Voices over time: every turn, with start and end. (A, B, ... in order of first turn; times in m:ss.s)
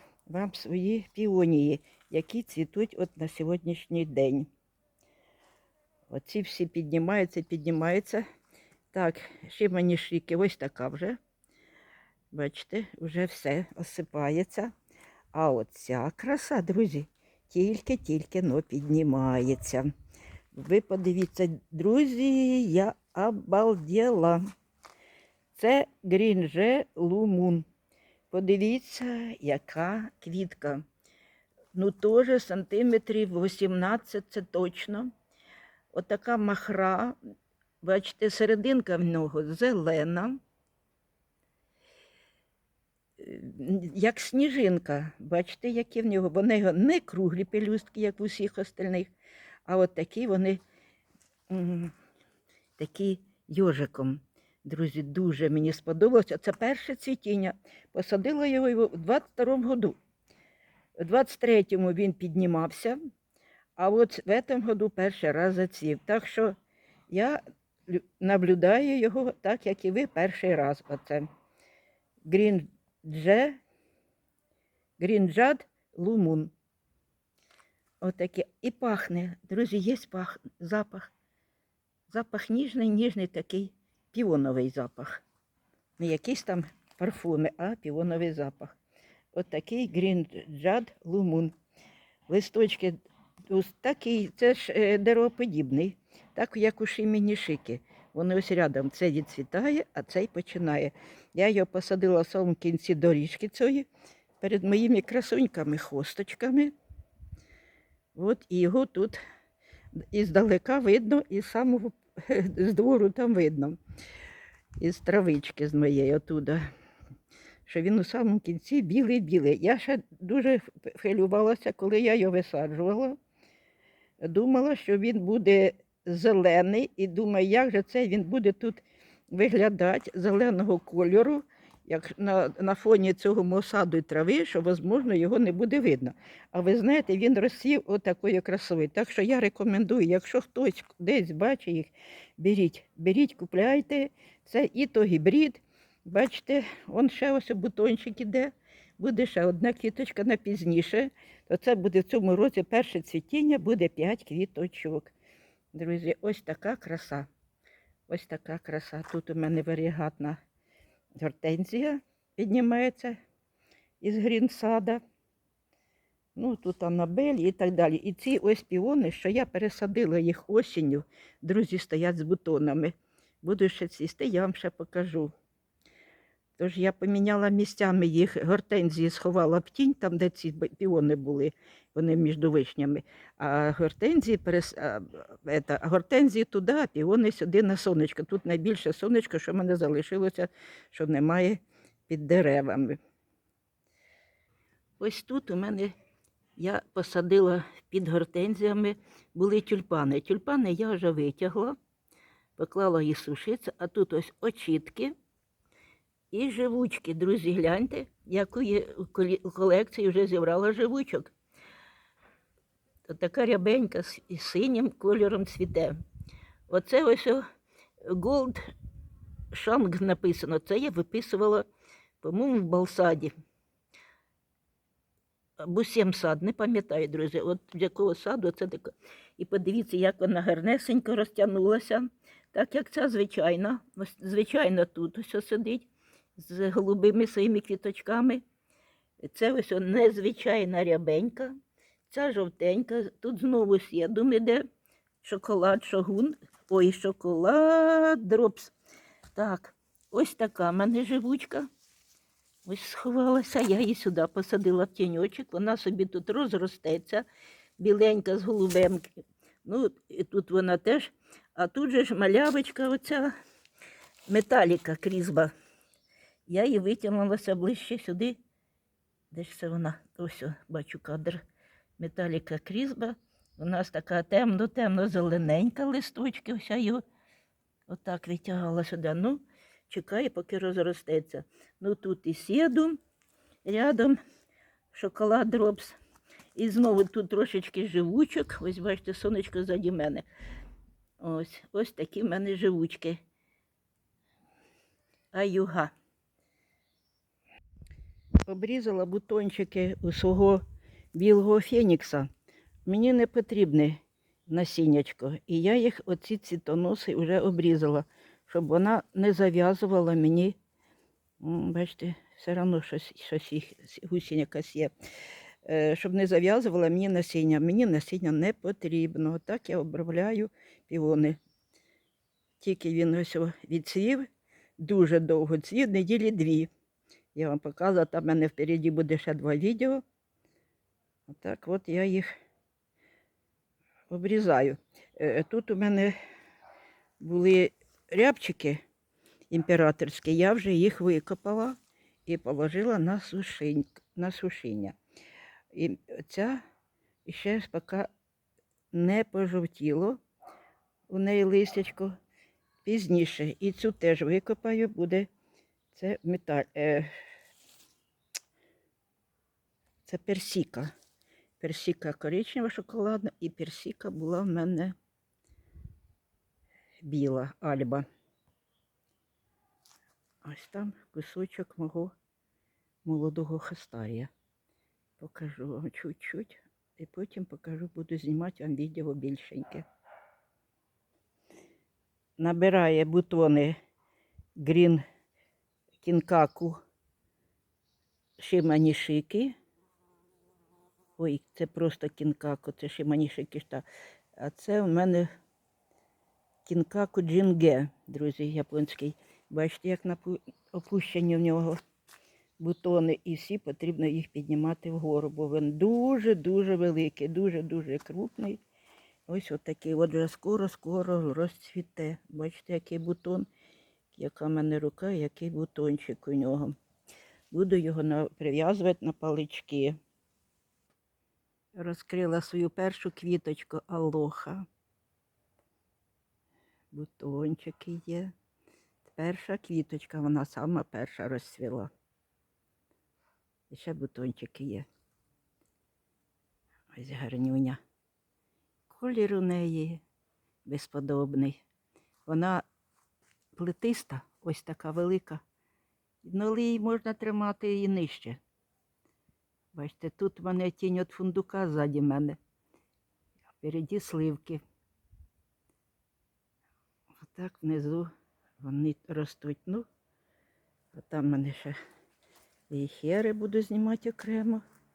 0:00.3-0:04.5 A
0:06.1-0:08.2 A
0:08.9-0:11.2 A
0:12.3-0:14.7 A
0:15.3-0:19.9 A
0:20.5-0:24.5 A
0:25.5-0:27.6 A
0:28.3-0:30.8 A
0:31.7-0:35.1 A
0:35.9-0:37.2 A
0:37.8-0:40.4 A
0:43.2-0:49.1 A
0:49.6-0:50.6 A
0:51.5-0:51.9 A
0:52.8-0:59.9 A
1:01.0-1:03.0 A
1:03.8-1:06.6 A
1:07.1-1:11.3 A
1:12.2-1:13.6 A
1:15.0-1:16.5 A
1:18.0-1:21.1 A
1:22.1-1:25.2 A
1:26.0-1:28.7 A
1:29.3-1:31.5 A
1:32.3-1:43.9 A
1:44.4-1:46.7 A
1:48.1-1:49.2 A
1:50.1-1:53.8 A
1:54.8-1:56.6 A
1:57.7-2:03.2 A
2:04.2-2:35.1 A
2:35.7-2:37.3 A
2:38.1-2:40.4 A
2:41.2-2:43.2 A
2:44.0-2:45.0 A
2:46.4-2:55.3 A
2:56.6-3:13.0 A
3:15.0-3:15.9 A
3:16.6-3:21.8 A
3:22.6-3:25.1 A
3:26.3-3:31.3 A
3:33.1-3:36.0 A
3:36.7-3:37.4 A
3:38.0-3:38.7 A
3:39.5-3:41.7 A
3:42.2-3:43.3 A
3:45.6-3:58.4 A
3:59.2-4:01.6 A
4:02.1-4:04.6 A
4:05.2-4:08.7 A
4:09.3-4:11.7 A
4:12.6-4:17.2 A
4:17.8-4:19.1 A
4:19.6-4:23.3 A
4:24.3-4:25.5 A
4:26.5-4:28.4 A
4:29.3-4:31.4 A
4:32.0-4:37.0 A
4:37.9-4:43.0 A
4:43.6-4:44.2 A
4:44.9-4:46.0 A
4:46.6-4:50.2 A
4:51.2-4:53.2 A
4:55.3-4:55.9 A
4:58.4-5:00.6 A
5:01.1-5:02.3 A
5:02.8-5:10.5 A
5:11.4-5:14.9 A
5:15.6-5:21.4 A
5:22.6-5:24.3 A
5:24.8-5:26.7 A
5:27.3-5:30.0 A
5:31.3-5:32.3 A
5:34.1-5:36.1 A
5:37.2-5:38.8 A
5:39.5-5:45.0 A
5:45.7-5:46.6 A
5:47.2-5:48.1 A
5:48.9-5:50.2 A
5:51.1-5:52.1 A
5:52.8-5:55.3 A
5:55.9-5:57.1 A
6:00.0-6:00.9 A
6:01.6-6:04.9 A
6:07.0-6:08.0 A
6:10.4-6:12.1 A
6:13.0-6:14.3 A
6:15.2-6:19.8 A
6:22.4-6:23.8 A
6:24.6-6:25.0 A
6:26.0-6:26.8 A
6:28.4-6:29.5 A
6:31.2-6:33.8 A
6:34.4-6:35.3 A
6:36.6-6:41.8 A
6:42.6-6:48.6 A
6:49.3-6:53.5 A
6:54.1-6:56.7 A
6:57.5-7:00.0 A
7:01.8-7:04.6 A
7:06.9-7:08.3 A
7:09.0-7:11.9 A
7:13.7-7:14.8 A
7:16.9-7:17.8 A
7:18.9-7:20.0 A
7:20.6-7:21.6 A
7:22.2-7:22.6 A
7:23.5-7:25.4 A
7:26.2-7:28.4 A
7:29.7-7:32.4 A
7:33.6-7:34.6 A
7:37.2-7:39.8 A
7:40.9-7:41.8 A
7:42.7-7:44.6 A